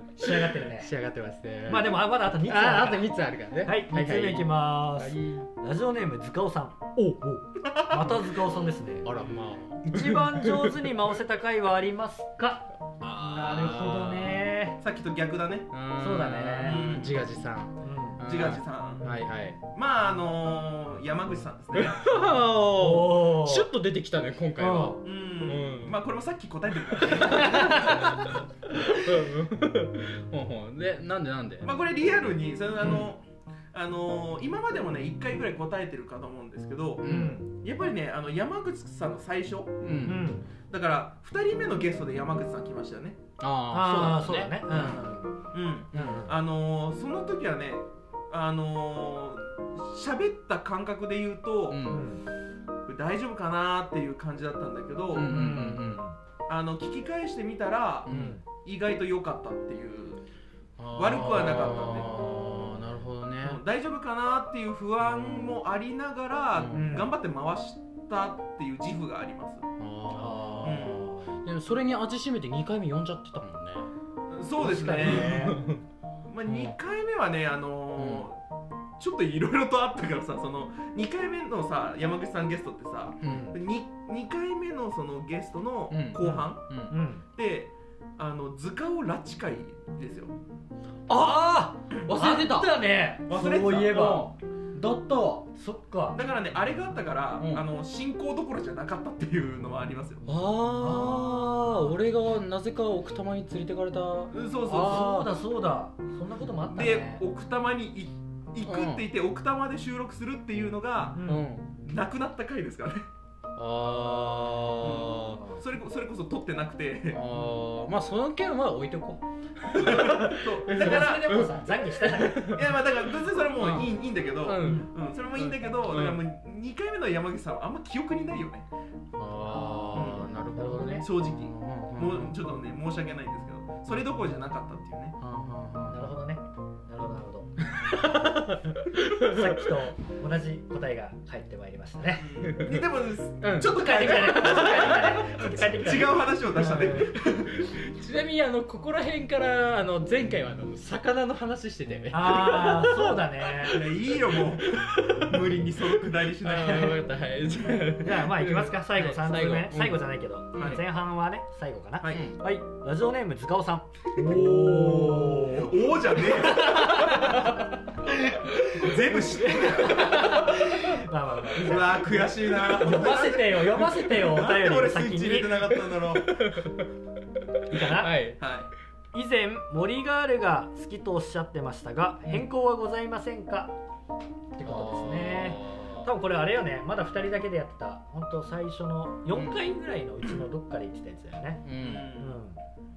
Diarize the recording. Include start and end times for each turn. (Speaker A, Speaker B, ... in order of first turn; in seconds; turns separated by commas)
Speaker A: 0.2-0.9, Speaker B: 0.3-5.5, Speaker A: 1.7-3.1, Speaker A: 3.6-9.1, Speaker B: 7.0-7.2, Speaker C: 7.7-8.2, Speaker B: 9.0-10.8, Speaker A: 9.8-12.7, Speaker B: 13.0-14.4, Speaker A: 13.3-14.8, Speaker C: 14.8-15.7, Speaker B: 15.7-19.6, Speaker A: 16.0-16.9, Speaker C: 16.6-17.2, Speaker A: 17.8-18.2, Speaker C: 18.2-19.1, Speaker C: 19.7-22.0, Speaker B: 21.7-26.0, Speaker A: 22.8-23.7, Speaker A: 24.6-25.0, Speaker C: 25.0-28.0, Speaker B: 26.9-31.7, Speaker A: 27.1-28.1, Speaker C: 31.6-37.0, Speaker B: 37.0-37.4, Speaker A: 37.0-37.5, Speaker C: 37.6-43.2, Speaker B: 39.8-40.3, Speaker A: 40.0-40.5, Speaker B: 43.4-45.0, Speaker A: 43.7-45.4, Speaker C: 44.7-51.9, Speaker A: 45.9-46.3, Speaker B: 51.7-52.0, Speaker A: 51.9-52.2, Speaker C: 52.9-55.3, Speaker B: 55.1-56.0, Speaker A: 55.1-56.2, Speaker C: 56.5-60.2, Speaker B: 58.1-58.4, Speaker A: 58.1-58.4, Speaker B: 60.8-63.6, Speaker C: 61.0-62.2, Speaker C: 63.4-69.6, Speaker B: 66.6-67.0, Speaker A: 66.7-67.1, Speaker B: 69.8-73.9, Speaker A: 70.1-71.3, Speaker C: 70.6-71.0, Speaker C: 74.3-75.6, Speaker A: 74.6-75.6, Speaker B: 75.0-75.8, Speaker C: 76.2-78.4, Speaker B: 76.5-76.7, Speaker B: 78.0-78.3, Speaker C: 79.0-86.7, Speaker B: 83.2-83.5, Speaker A: 83.2-83.6, Speaker B: 85.9-86.9, Speaker A: 86.2-87.2, Speaker C: 87.3-90.3, Speaker A: 91.1-94.3, Speaker B: 92.1-92.7, Speaker C: 93.3-94.3, Speaker B: 93.8-95.5, Speaker A: 95.5-96.2, Speaker C: 96.1-100.3, Speaker B: 97.4-97.7, Speaker B: 100.3-105.3, Speaker A: 100.8-101.9, Speaker C: 104.3-105.3, Speaker A: 104.7-107.2, Speaker C: 106.7-111.2, Speaker B: 108.7-109.0, Speaker A: 111.1-111.5, Speaker B: 111.2-111.7, Speaker C: 111.8-113.0, Speaker B: 113.6-115.4, Speaker C: 114.8-117.2, Speaker A: 115.2-115.6, Speaker B: 117.1-122.8, Speaker C: 119.8-121.5, Speaker A: 120.0-122.6, Speaker C: 122.4-128.7, Speaker B: 123.6-126.2, Speaker A: 124.6-124.9, Speaker B: 129.2-132.4, Speaker A: 129.5-131.1, Speaker C: 129.9-130.4, Speaker C: 131.0-135.2, Speaker B: 135.2-136.1, Speaker A: 135.9-137.6, Speaker B: 137.8-139.5, Speaker A: 139.2-142.3, Speaker C: 142.2-147.6, Speaker B: 143.4-145.3, Speaker A: 143.7-147.1, Speaker B: 147.5-155.4, Speaker A: 152.1-153.8, Speaker C: 153.6-157.0, Speaker A: 156.4-157.1, Speaker B: 156.4-160.0, Speaker A: 157.7-175.6, Speaker B: 160.5-160.8, Speaker C: 162.0-162.3, Speaker B: 162.1-162.4, Speaker C: 164.3-167.3, Speaker B: 164.3-164.6, Speaker B: 167.3-167.6, Speaker C: 168.8-170.2, Speaker B: 169.8-170.9, Speaker C: 171.6-176.5, Speaker B: 175.7-176.9, Speaker A: 177.7-178.2, Speaker B: 177.7-178.4, Speaker C: 178.4-178.7, Speaker A: 179.1-183.7, Speaker A: 184.6-192.6, Speaker B: 184.6-186.1, Speaker B: 189.3-189.6, Speaker B: 191.6-192.1, Speaker C: 191.8-192.4